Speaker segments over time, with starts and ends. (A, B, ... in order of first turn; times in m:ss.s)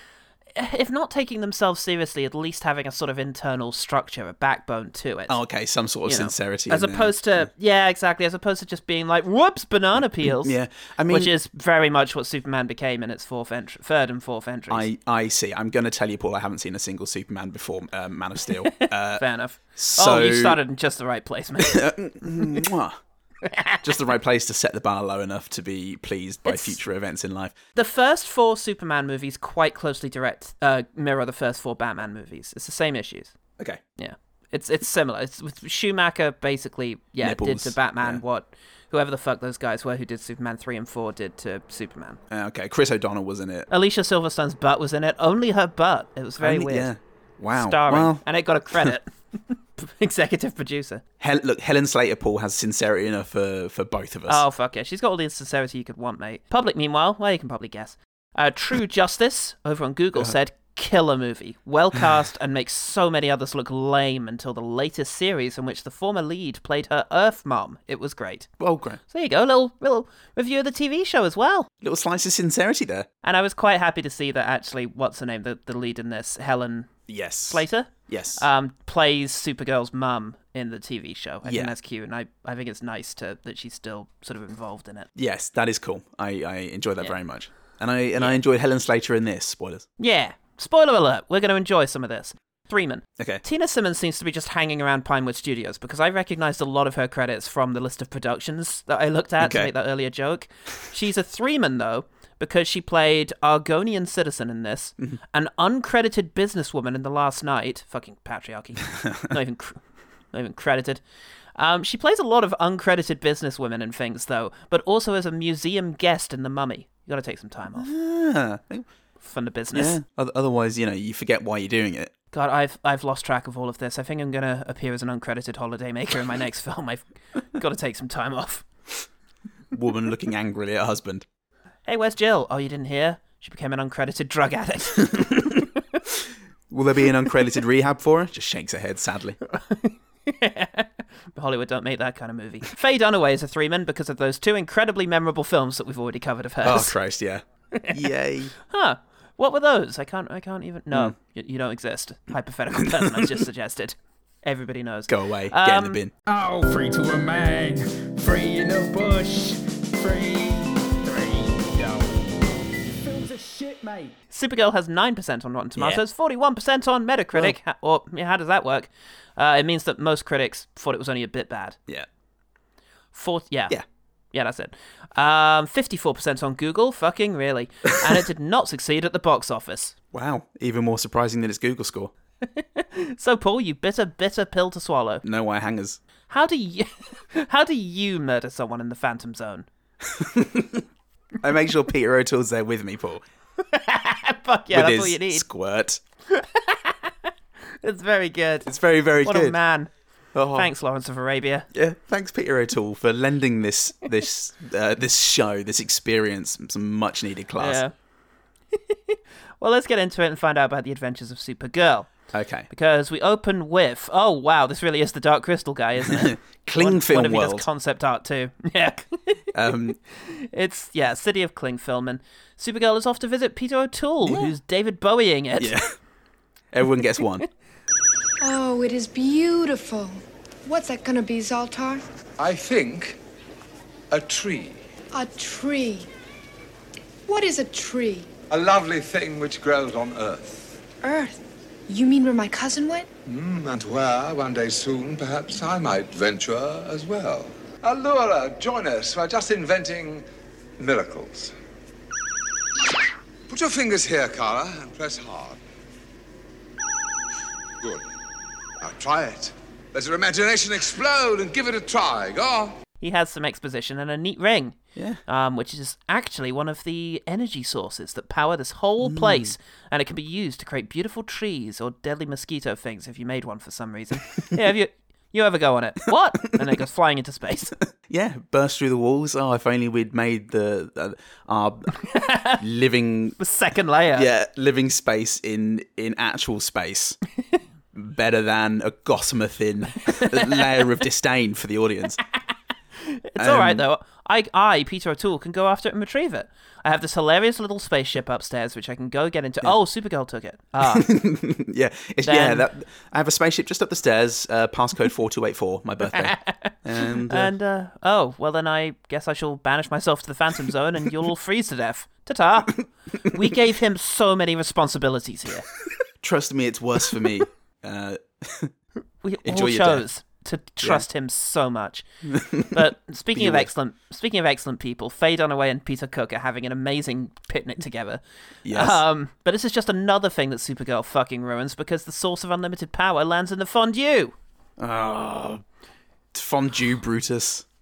0:00.6-0:05.4 A
0:05.3-0:07.5 B
0:06.0-0:10.6 A
0:10.2-0:11.3 B
0:11.1-0:14.9 A
0:14.7-0:20.6 B
0:18.7-0:22.6 A
0:21.6-0:23.0 B
0:23.4-0:23.8 A
0:23.8-0:27.5 B
0:26.4-0:26.8 A
0:27.8-0:33.3 A
0:34.0-0:42.2 A
0:37.2-0:38.2 B
0:42.3-0:43.7 B
0:43.7-0:46.9 A
0:46.4-0:48.2 B
0:47.5-0:51.0 A
0:51.2-0:54.4 B
0:54.3-1:08.5 A
1:08.6-1:09.0 B
1:09.1-1:11.7 A
1:11.8-1:13.1 B
1:13.2-1:16.9 A
1:17.1-1:18.4 B
1:17.5-1:25.1 A
1:21.4-1:21.7 B
1:25.1-1:29.9 B
1:30.0-1:49.8 A
1:39.4-1:39.7 B
1:50.3-1:51.0 A
1:51.6-1:57.9 A
1:57.8-1:58.9 B
1:59.2-2:00.0 A
1:59.7-2:02.1 B
2:02.3-2:08.6 A
2:09.7-2:11.2 B
2:11.8-2:15.5 A
2:15.0-2:15.5 B
2:16.7-2:19.4 B
2:19.5-2:27.0 A
2:26.6-2:28.5 B
2:28.7-2:36.0 A
2:30.9-2:31.2 B
2:32.8-2:33.4 B
2:35.1-2:36.1 B
2:36.2-2:44.1 C
2:44.3-2:51.8 A
2:45.8-2:46.0 B
2:53.1-2:53.8 A
2:54.3-2:59.9 A
3:00.1-3:02.1 B
3:02.5-3:05.2 A
3:05.2-3:06.0 B
3:06.3-3:09.6 A
3:10.0-3:10.8 B
3:11.4-3:13.2 B
3:13.6-3:15.4 A
3:14.7-3:16.0 B
3:16.3-3:17.1 A
3:17.8-3:18.7 A
3:18.6-3:19.6 B
3:19.2-3:19.9 A
3:20.3-3:20.7 B
3:20.5-3:21.7 A
3:21.7-3:27.8 B
3:27.6-3:27.9 A
3:28.8-3:32.2 A
3:32.3-3:32.7 B
3:32.7-3:39.4 A
3:36.0-3:37.7 B
3:39.5-3:40.0 B
3:40.2-3:45.7 A
3:44.2-3:44.5 B
3:45.6-3:45.9 B
3:46.7-3:47.4 B
3:48.4-3:52.0 D
3:52.4-3:53.2 E
3:54.1-3:54.8 E
3:55.1-3:56.1 D
3:57.3-3:58.3 D
3:58.5-4:00.8 E
4:01.0-4:03.1 D
4:03.2-4:10.2 E
4:10.8-4:11.5 E
4:13.5-4:15.6 E
4:18.8-4:22.8 E
4:23.0-4:37.7 A
4:25.0-4:25.2 B
4:29.0-4:29.5 B
4:38.1-4:41.9 B
4:42.1-4:42.6 A
4:42.6-4:43.4 B
4:43.4-4:44.3 A
4:44.1-4:47.2 B
4:47.9-4:52.2 B
4:50.2-4:50.6 A
4:53.0-5:01.1 A
4:53.4-4:53.8 B
5:00.8-5:07.5 B
5:02.2-5:02.7 A
5:06.1-5:06.7 A
5:07.3-5:15.7 A
5:16.2-5:18.7 B
5:19.2-5:22.0 A
5:19.4-5:20.0 B
5:22.2-5:23.7 B
5:22.7-5:34.3 A
5:28.6-5:29.0 B
5:34.8-5:35.6 B
5:36.3-5:37.6 B